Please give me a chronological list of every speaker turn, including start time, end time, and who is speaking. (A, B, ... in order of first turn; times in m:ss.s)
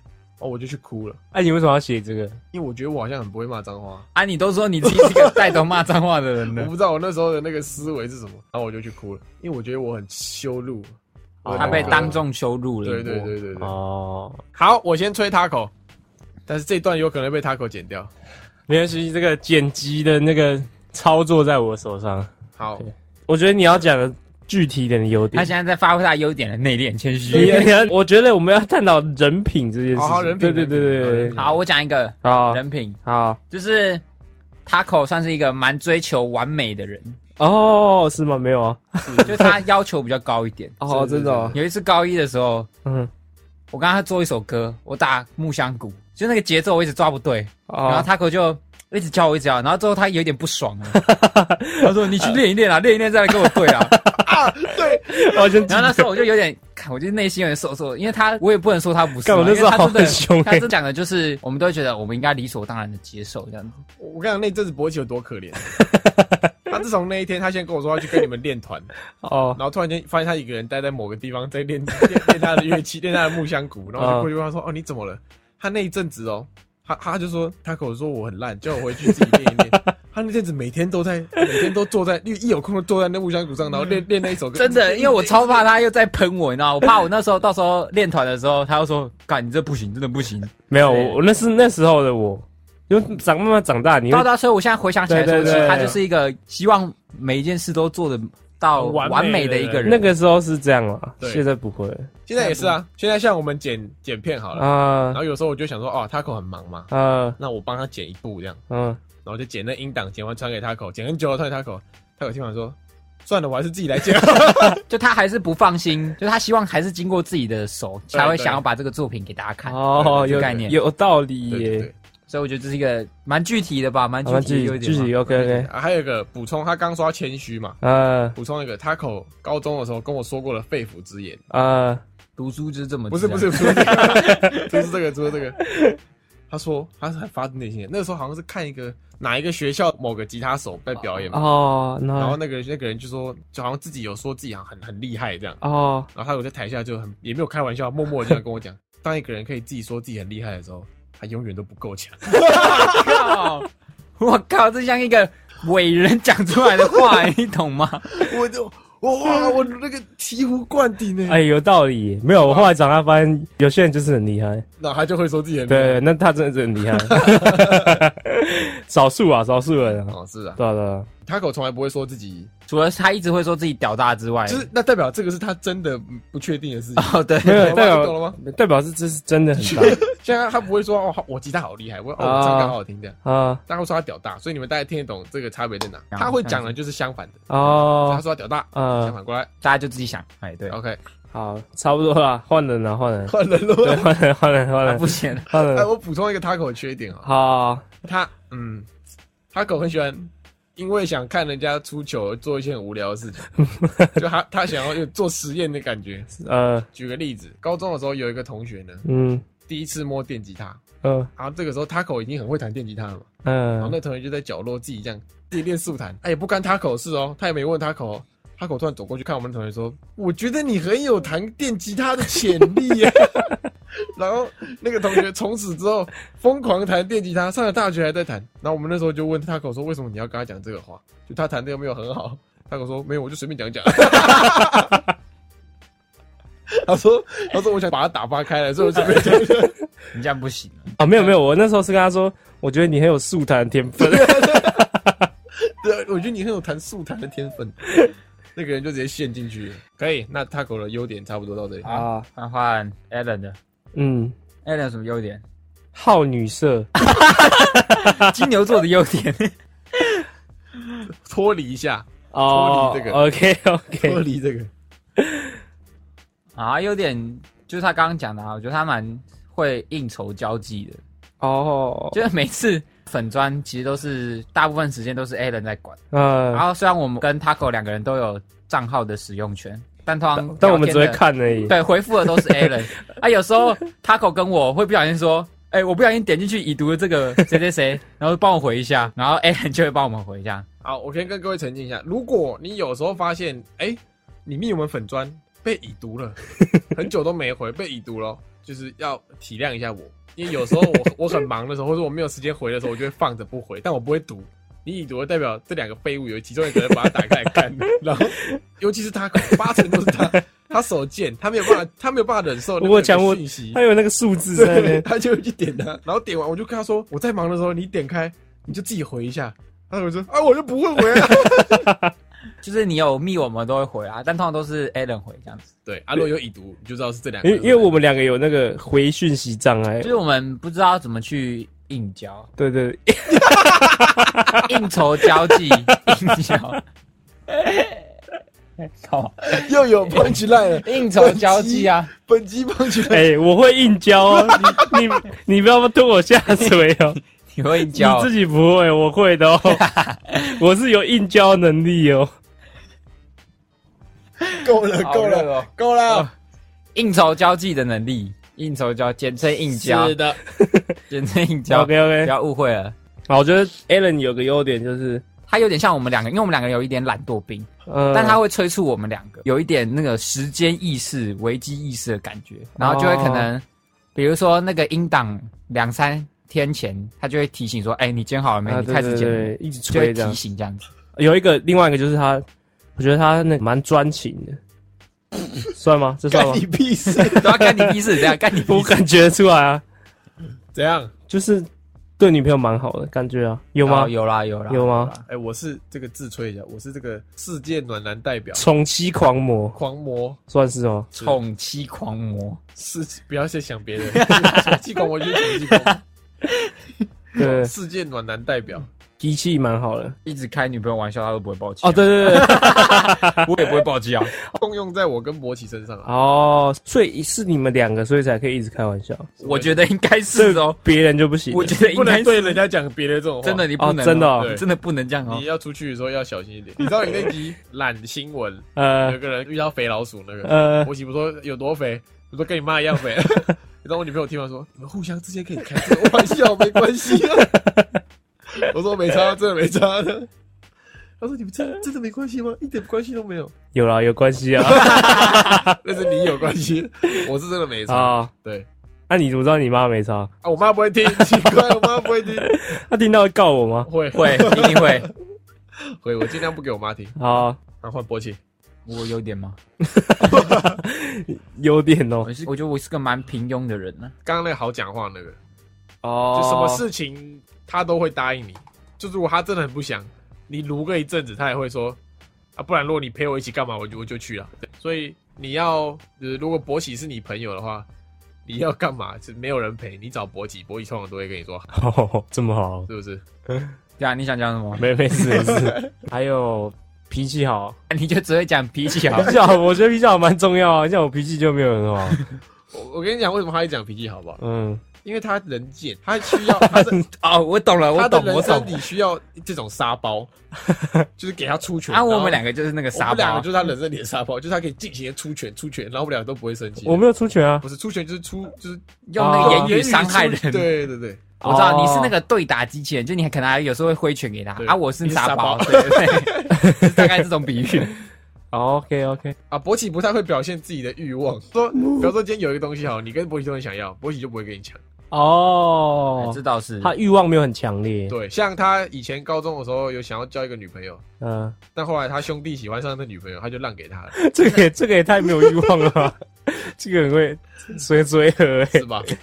0:00.4-0:01.2 A
0:01.3-0:02.4 B
0:02.5-0:04.1 A
0:04.1-0:06.7 C
0:04.8-0:05.6 A
0:06.5-0:10.9 A
0:11.4-0:12.2 B
0:11.4-0:12.2 A
0:11.5-0:13.3 C
0:12.8-0:13.7 A
0:13.6-0:14.4 B
0:14.5-0:15.7 A
0:16.5-0:18.1 A
0:18.7-0:25.5 B
0:22.6-0:22.9 A
0:25.3-0:27.7 C
0:27.3-0:27.7 A
0:27.3-0:31.4 B
0:29.9-0:31.6 A
0:31.4-0:33.0 C
0:32.2-0:33.4 B
0:33.5-0:34.0 C
0:34.6-0:37.2 C
0:37.4-0:39.6 B
0:39.0-0:39.5 A
0:39.2-0:40.8 C
0:40.8-0:41.6 B
0:40.9-0:41.6 A
0:41.5-0:42.7 C
0:42.8-0:43.1 B
0:43.7-0:51.1 C
0:47.7-0:48.1 B
0:50.9-0:52.4 B
0:51.8-0:54.0 C
0:53.4-0:56.1 B
0:54.2-0:55.7 A
0:55.7-1:03.8 C
0:59.2-1:00.7 B
1:04.0-1:05.7 A
1:05.7-1:06.5 B
1:06.7-1:08.9 A
1:09.2-1:09.6 B
1:09.6-1:25.6 A
1:14.0-1:14.3 B
1:24.5-1:31.2 C
1:30.7-1:34.3 B
1:34.1-1:40.1 C
1:35.1-1:36.0 B
1:35.4-1:36.0 A
1:38.7-1:40.0 A
1:39.8-1:42.7 B
1:42.3-1:48.6 A
1:44.6-1:45.2 B
1:46.9-1:47.4 B
1:48.7-1:49.0 B
1:49.2-1:54.8 A
1:54.8-2:00.8 C
1:58.1-1:58.6 A
1:59.7-2:01.9 B
1:59.9-2:00.7 A
2:01.5-2:01.9 A
2:02.3-2:05.1 C
2:04.2-2:05.7 B
2:05.2-2:07.8 A
2:07.8-2:08.4 B
2:08.4-2:11.4 A
2:11.5-2:12.0 B
2:12.4-2:14.8 C
2:13.1-2:15.6 A
2:13.9-2:14.6 B
2:15.6-2:16.0 B
2:16.5-2:21.4 A
2:21.3-2:22.4 B
2:22.2-2:25.6 A
2:25.6-2:26.1 B
2:26.1-2:33.4 A
2:32.3-2:38.4 C
2:38.1-2:41.4 A
2:41.3-2:44.6 B
2:42.4-2:42.7 A
2:44.8-2:46.0 A
2:45.7-2:51.1 B
2:46.9-2:48.0 A
2:50.1-2:50.6 A
2:51.2-2:52.5 A
2:52.7-2:54.7 C
2:54.5-2:58.4 A
2:57.0-2:57.8 C
2:57.4-3:00.0 B
2:59.6-3:09.5 A
3:02.2-3:03.6 B
3:06.1-3:06.7 C
3:07.5-3:08.2 B
3:08.7-3:09.1 B
3:09.6-3:10.8 C
3:10.7-3:11.0 A
3:11.3-3:15.9 B
3:13.3-3:14.1 A
3:14.8-3:15.5 C
3:15.5-3:17.3 A
3:17.2-3:17.9 B
3:18.0-3:18.9 A
3:19.5-3:23.5 A
3:23.6-3:24.2 B
3:24.2-3:26.3 A
3:26.4-3:26.9 B
3:26.9-3:29.0 A
3:29.0-3:29.4 B
3:29.7-3:30.8 A
3:31.0-3:31.3 B
3:31.4-3:33.3 A
3:33.4-3:34.0 B
3:33.8-3:55.0 A
3:56.7-3:59.8 A
4:00.1-4:01.0 C
4:01.0-4:05.3 B
4:04.0-4:04.8 A
4:05.6-4:07.8 A
4:07.9-4:08.1 B
4:08.6-4:11.9 A
4:11.8-4:12.3 B
4:11.8-4:13.6 C
4:13.9-4:14.4 B
4:14.6-4:15.4 C
4:15.9-4:16.9 B
4:17.0-4:20.2 C
4:17.8-4:18.4 B
4:21.1-4:23.2 A
4:22.3-4:24.2 B
4:24.0-4:24.7 A
4:25.2-4:25.6 B
4:26.5-4:31.0 C
4:31.4-4:32.2 B
4:32.1-4:36.0 C
4:36.1-4:36.6 B
4:36.5-4:50.6 C
4:40.4-4:41.8 B
4:42.3-4:42.6 B
4:50.8-4:56.4 A
4:56.9-5:13.8 A
5:09.4-5:10.4 B
5:12.8-5:15.1 B
5:14.5-5:21.9 A
5:21.1-5:22.1 B
5:22.6-5:25.7 C
5:25.9-5:28.0 A
5:27.4-5:30.1 B
5:30.0-5:32.5 C
5:32.6-5:34.7 B
5:33.3-5:34.5 A
5:34.6-5:36.8 C
5:35.5-5:36.1 B
5:37.5-5:38.0 C
5:38.8-5:42.1 C
5:39.5-5:43.2 A
5:43.1-5:47.2 B
5:44.3-5:45.0 A
5:46.5-5:46.9 C
5:47.5-5:48.3 C
5:47.9-5:49.8 B
5:49.6-5:50.6 C
5:50.6-5:52.3 B
5:54.5-5:56.3 C
5:54.5-5:56.3 A
5:56.9-6:00.4 C
5:59.8-6:00.4 A
6:00.5-6:01.0 B
6:01.1-6:02.9 C
6:01.7-6:02.3 B
6:03.3-6:05.2 B
6:05.5-6:13.6 C
6:07.9-6:08.4 B
6:12.8-6:13.5 B
6:14.1-6:20.9 C
6:18.6-6:20.4 B
6:21.2-6:22.4 B
6:23.0-6:24.6 B
6:25.7-6:27.9 B
6:26.3-6:27.6 A
6:27.3-6:29.0 C
6:28.5-6:29.8 B
6:30.7-6:31.1 A
6:31.3-6:31.7 B
6:32.2-6:34.1 B
6:33.8-6:35.2 C
6:34.7-6:35.1 B
6:35.3-6:38.6 A
6:38.5-6:39.8 B
6:39.8-6:40.4 A
6:40.5-6:41.1 B
6:41.1-6:42.6 C
6:42.8-6:46.0 A
6:44.1-6:46.7 C
6:47.4-6:48.9 A
6:47.4-6:47.7 B
6:49.2-6:50.2 B
6:50.3-6:54.3 C
6:51.8-6:53.5 B
6:54.5-6:56.1 A
6:56.0-6:59.3 B
6:59.4-6:59.8 A
6:59.4-7:00.8 C
7:00.3-7:01.7 B
7:01.5-7:02.6 C
7:01.7-7:03.7 A
7:03.4-7:05.4 C
7:03.8-7:04.6 B
7:04.4-7:04.6 A
7:05.3-7:17.5 A
7:08.8-7:09.2 B
7:10.4-7:10.9 B
7:17.3-7:18.0 B
7:18.6-7:20.3 A
7:21.2-7:23.5 A
7:23.7-7:25.8 B
7:24.7-7:25.6 C
7:24.7-7:28.7 A
7:27.9-7:28.3 B
7:29.1-7:30.3 B
7:30.4-7:32.5 A
7:31.2-7:33.9 B
7:33.8-7:35.1 A
7:34.1-7:35.1 C
7:35.8-7:37.2 A
7:37.2-7:37.6 B
7:37.8-7:38.4 A
7:38.9-7:39.6 C
7:39.9-7:42.3 B
7:40.3-7:40.7 A
7:42.2-7:44.1 C
7:44.2-7:45.4 A
7:46.0-7:46.9 B
7:46.3-7:52.0 A
7:52.6-7:57.9 A
7:58.4-8:01.7 A
8:01.7-8:02.9 B
8:02.9-8:03.2 A
8:04.0-8:04.9 C
8:04.8-8:07.8 B
8:05.2-8:05.9 A
8:07.9-8:09.3 C
8:09.1-8:12.2 B
8:12.1-8:12.4 C
8:12.7-8:14.4 A
8:14.4-8:14.8 B
8:15.0-8:17.0 A
8:16.6-8:18.8 C
8:17.9-8:20.3 A
8:20.7-8:21.1 B
8:21.2-8:22.4 A
8:21.9-8:23.5 C
8:22.9-8:27.0 A
8:26.8-8:27.6 B
8:27.6-8:31.4 A
8:29.1-8:30.7 C
8:29.2-8:29.7 B
8:31.4-8:37.9 C
8:31.4-8:32.1 B
8:34.6-8:36.5 A
8:36.5-8:36.9 B
8:38.5-8:39.4 B
8:39.5-8:44.8 A
8:45.1-8:48.1 B
8:46.2-8:46.9 C
8:48.1-8:51.0 A
8:51.2-8:51.6 B
8:51.7-8:54.1 A
8:54.1-8:59.1 B
8:58.7-8:59.1 A